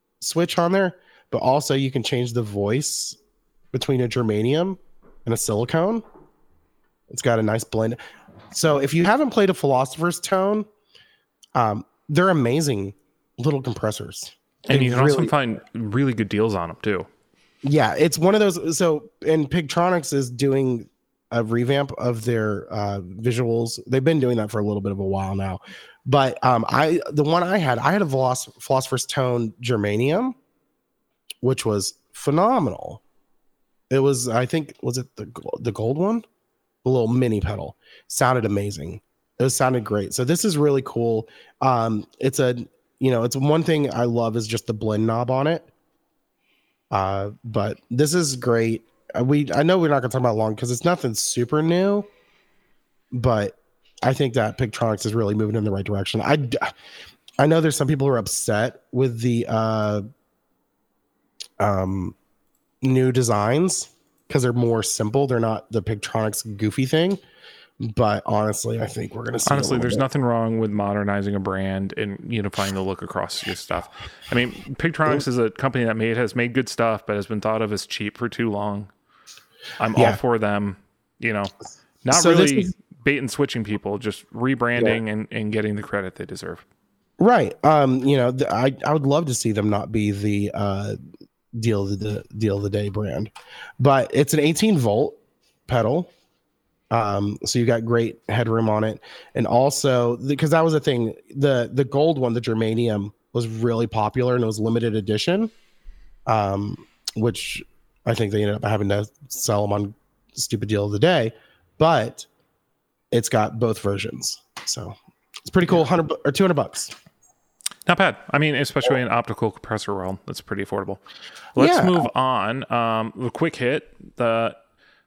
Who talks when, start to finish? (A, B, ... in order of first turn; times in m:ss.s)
0:00.2-0:03.2 A
0:03.7-0:06.0 A
0:07.1-0:08.0 A
0:08.5-0:10.7 A
0:11.5-0:15.3 A
0:14.6-0:17.1 B
0:17.6-0:30.4 A
0:31.4-0:33.0 A
0:33.9-0:36.2 A
0:36.8-0:45.7 A
0:46.9-0:52.1 A
0:53.1-0:56.7 A
0:57.4-1:00.0 A
1:01.6-1:02.1 A
1:02.8-1:07.2 A
1:07.8-1:10.0 A
1:09.4-1:18.9 B
1:19.8-1:21.5 B
1:22.0-1:26.6 B
1:22.1-1:22.7 A
1:27.2-1:31.0 A
1:31.5-1:36.1 A
1:36.9-1:45.5 A
1:46.2-1:52.3 A
1:53.1-1:54.9 A
1:55.4-1:56.9 A
1:57.8-2:01.0 B
2:01.6-2:04.6 B
2:01.6-2:02.1 A